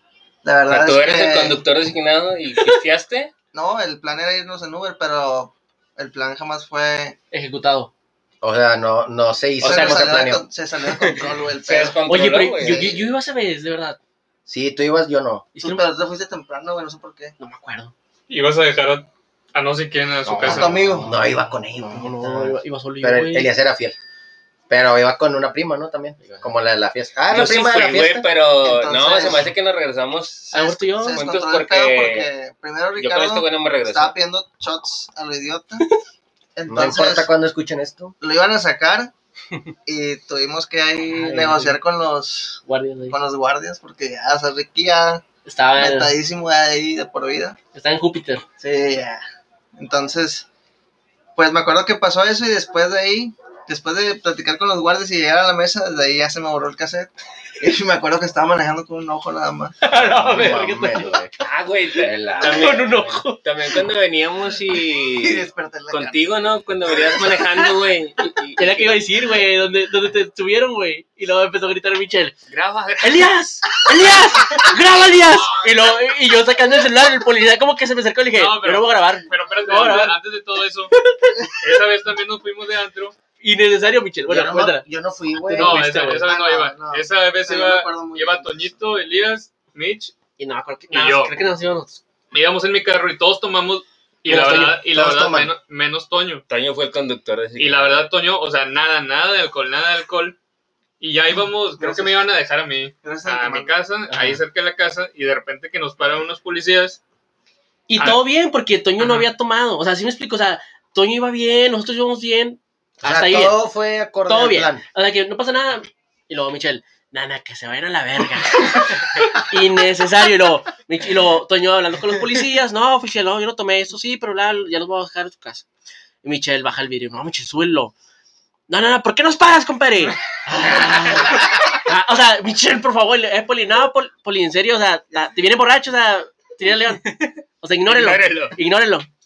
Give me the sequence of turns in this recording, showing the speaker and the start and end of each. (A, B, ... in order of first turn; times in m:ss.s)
0:00.4-0:01.6 A
0:00.7-0:03.3 B
0:03.5-0:07.2 A
0:07.3-0:07.9 C
0:08.4-0:10.4 D
0:09.6-0:10.2 C
0:09.6-0:12.0 A
0:11.0-0:13.1 B
0:12.1-0:14.0 C
0:14.5-0:15.5 D
0:15.6-0:15.8 C
0:15.6-0:17.4 A
0:17.4-0:17.9 C
0:18.3-0:20.8 E
0:20.4-0:21.2 A
0:20.9-0:23.5 C
0:21.0-0:24.0 D
0:24.7-0:28.3 D
0:27.3-0:30.5 B
0:28.6-0:29.5 A
0:30.5-0:35.8 A
0:30.5-0:31.2 C
0:31.1-0:32.3 B
0:33.0-0:34.2 B
0:36.6-0:37.3 A
0:36.7-0:38.2 D
0:38.2-0:39.1 A
0:39.9-0:45.2 A
0:41.1-0:41.8 C
0:42.7-0:43.2 C
0:45.4-0:46.1 C
0:45.8-0:47.6 A
0:47.8-0:48.4 C
0:48.6-0:49.2 A
0:49.8-0:50.5 A
0:51.4-0:59.8 A
0:59.8-1:01.2 C
0:59.9-1:01.4 D
1:01.4-1:09.1 B
1:02.0-1:02.8 D
1:02.4-1:03.8 C
1:05.0-1:07.7 A
1:08.6-1:12.4 C
1:12.5-1:13.3 B
1:13.0-1:20.2 C
1:14.0-1:14.7 B
1:18.3-1:21.0 E
1:21.6-1:23.2 E
1:23.4-1:24.9 C
1:24.3-1:25.8 D
1:25.4-1:26.3 C
1:25.6-1:30.2 E
1:26.1-1:28.7 A
1:30.4-1:32.0 C
1:30.9-1:31.4 E
1:32.3-1:36.4 E
1:34.3-1:34.8 C
1:34.9-1:35.5 D
1:36.5-1:38.0 B
1:37.6-1:40.4 E
1:41.0-1:47.0 E
1:41.8-1:42.2 A
1:43.0-1:43.7 A
1:44.1-1:44.4 C
1:47.9-1:53.6 C
1:49.0-1:49.3 E
1:53.0-1:54.8 D
1:54.3-2:05.7 C
2:06.2-2:07.9 C
2:08.7-2:17.1 C
2:10.7-2:11.3 B
2:17.0-2:18.6 B
2:17.6-2:19.1 C